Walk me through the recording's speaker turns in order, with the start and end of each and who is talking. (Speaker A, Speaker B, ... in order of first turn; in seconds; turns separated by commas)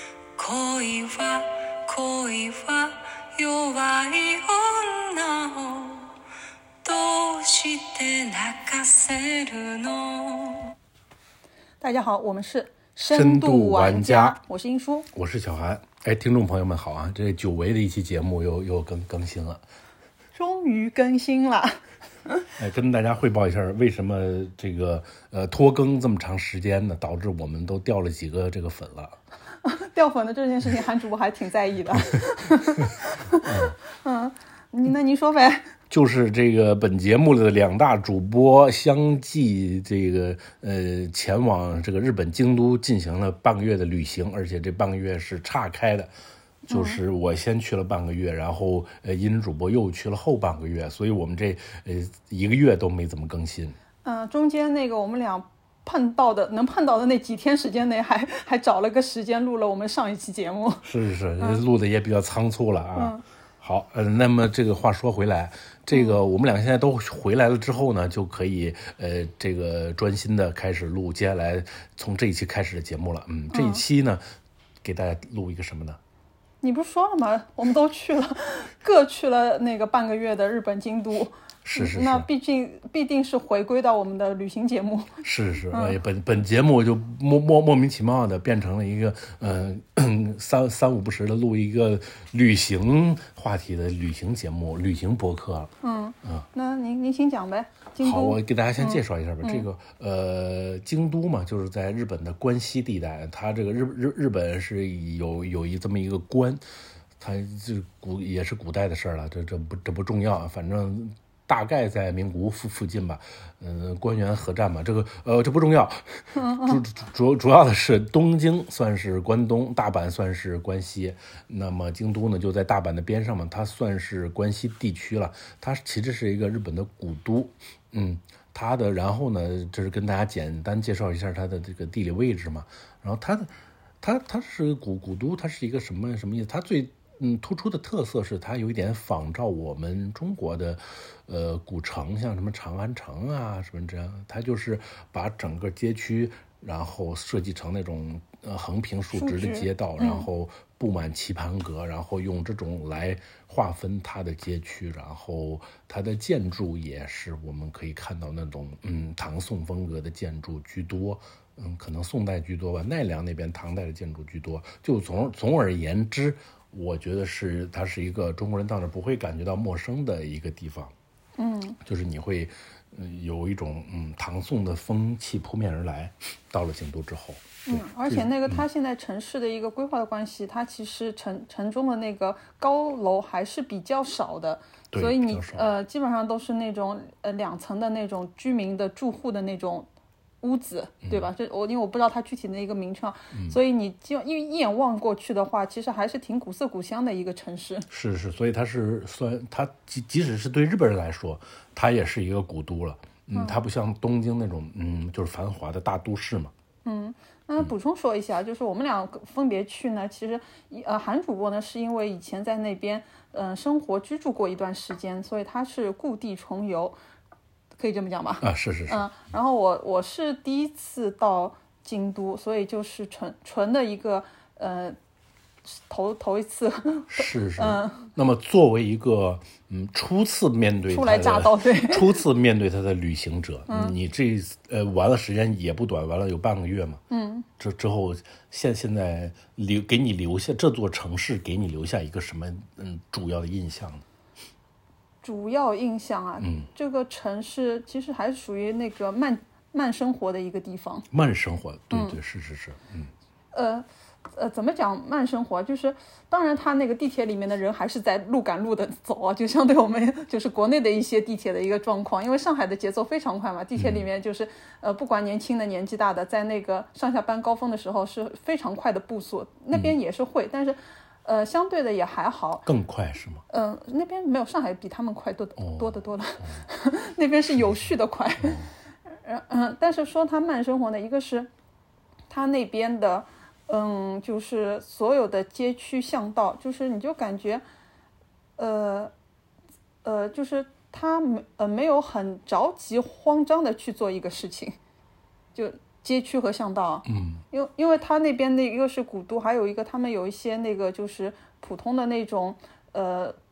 Speaker A: 0.3-6.1, Speaker A: 6.8-10.7, Speaker B: 11.8-15.1, Speaker C: 13.1-14.4, Speaker C: 15.1-19.6, Speaker B: 20.3-22.4, Speaker C: 22.6-29.2, Speaker B: 29.6-35.7, Speaker C: 33.4-33.7, Speaker C: 35.9-46.1, Speaker B: 46.7-47.0, Speaker C: 46.7-53.8, Speaker B: 54.0-60.9, Speaker C: 60.8-74.2, Speaker B: 63.0-63.2, Speaker B: 73.5-73.8, Speaker C: 74.8-76.0, Speaker B: 76.6-86.0, Speaker C: 81.6-82.3, Speaker C: 85.2-95.7, Speaker B: 95.8-99.7, Speaker C: 98.0-106.6, Speaker C: 107.2-170.9, Speaker B: 116.3-116.8, Speaker B: 149.1-150.3, Speaker B: 171.4-171.8, Speaker C: 171.8-178.6, Speaker B: 177.7-189.9, Speaker C: 184.9-185.7, Speaker B: 190.4-197.8, Speaker C: 197.9-206.5, Speaker B: 203.3-203.6, Speaker B: 206.8-216.9, Speaker B: 217.8-225.0, Speaker C: 218.4-219.1, Speaker B: 225.7-228.1, Speaker C: 227.1-237.0, Speaker B: 230.9-232.2, Speaker B: 233.7-233.9, Speaker B: 237.1-237.5, Speaker C: 237.6-244.0, Speaker B: 245.2-251.1, Speaker C: 246.4-246.7, Speaker C: 251.1-253.1, Speaker B: 251.9-252.2, Speaker B: 253.5-272.6, Speaker C: 263.8-264.0, Speaker C: 272.6-273.4, Speaker B: 273.5-281.5, Speaker C: 275.6-276.6, Speaker C: 278.4-278.7, Speaker B: 282.3-287.6, Speaker B: 288.6-289.1, Speaker B: 290.0-294.8, Speaker B: 295.5-303.4, Speaker C: 297.1-297.4